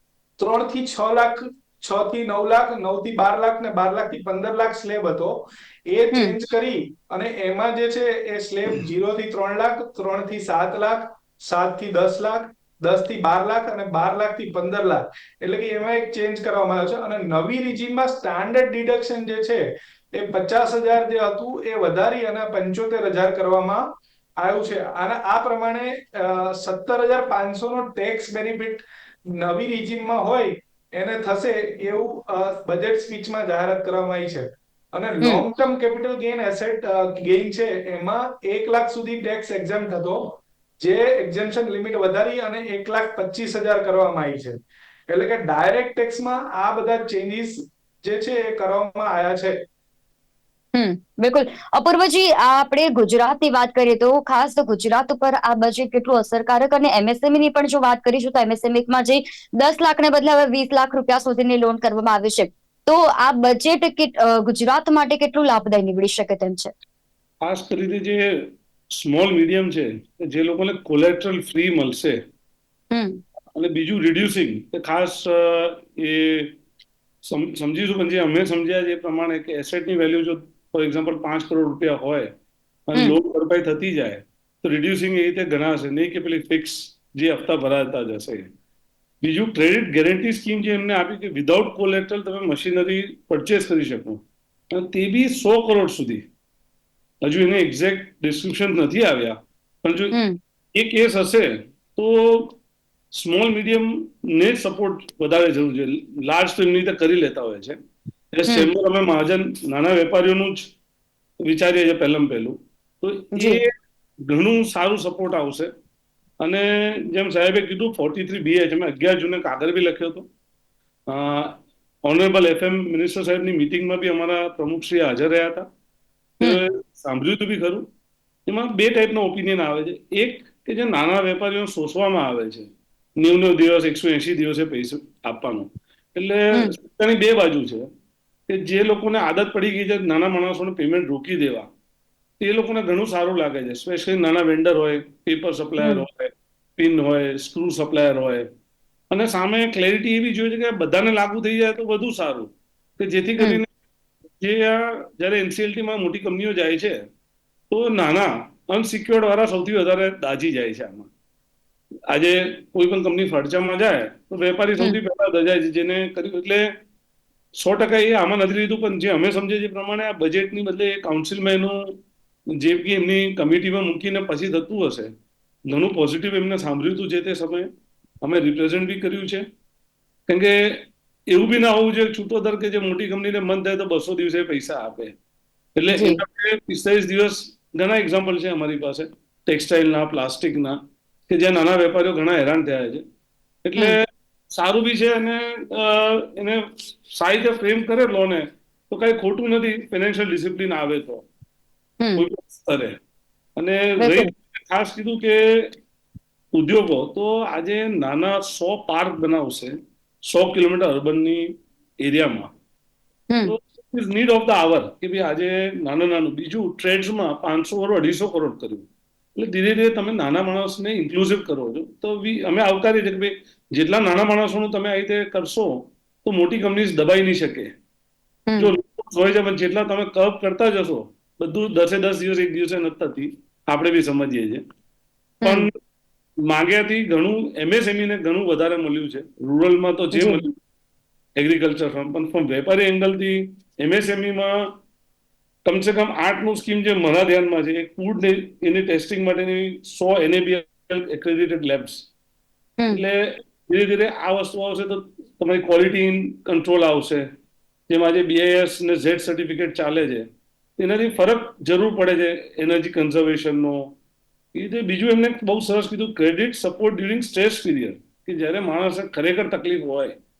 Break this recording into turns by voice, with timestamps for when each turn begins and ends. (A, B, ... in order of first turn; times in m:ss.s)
0:00.4-0:23.8 A
0:24.4-0:28.8 A
0:29.4-0:49.6 A
0:35.2-0:35.5 B
0:50.7-1:06.7 B
1:07.4-1:12.2 C
1:12.9-1:13.2 B
1:13.6-1:16.5 C
1:17.2-1:22.3 C
1:22.9-1:28.5 C
1:29.2-1:34.2 C
1:34.7-1:36.2 C
1:37.2-1:40.1 C
1:40.1-1:40.4 B
1:40.8-1:42.6 C
1:43.1-1:47.8 C
1:48.3-1:50.7 C
1:51.4-1:53.7 C
1:53.3-1:53.6 B
1:54.3-1:55.7 C
1:56.4-2:00.3 C
2:01.1-2:05.7 C
2:06.4-2:07.9 C
2:08.5-2:17.9 C
2:18.5-2:21.7 C
2:22.4-2:28.5 C
2:29.1-2:33.7 C
2:34.4-2:37.0 C
2:37.7-2:41.1 C
2:42.1-2:46.7 C
2:47.6-2:52.0 C
2:52.6-2:55.1 C
2:55.7-2:57.7 C
2:58.2-2:59.4 C
3:00.3-3:05.2 C
3:05.8-3:13.0 C
3:05.9-3:06.2 B
3:13.6-3:21.3 C
3:22.2-3:23.0 C
3:23.6-3:25.7 C
3:24.0-3:24.3 B
3:26.5-3:32.5 C
3:33.4-3:38.9 C
3:39.4-3:47.7 C
3:48.5-3:48.8 B
3:48.6-3:54.6 C
3:55.4-3:55.7 B
3:55.4-3:55.8 C
3:56.4-4:00.5 C
4:00.1-4:00.4 B
4:01.4-4:04.7 C
4:05.6-4:12.1 C
4:12.9-4:17.3 C
4:17.9-4:24.0 C
4:24.5-4:30.2 C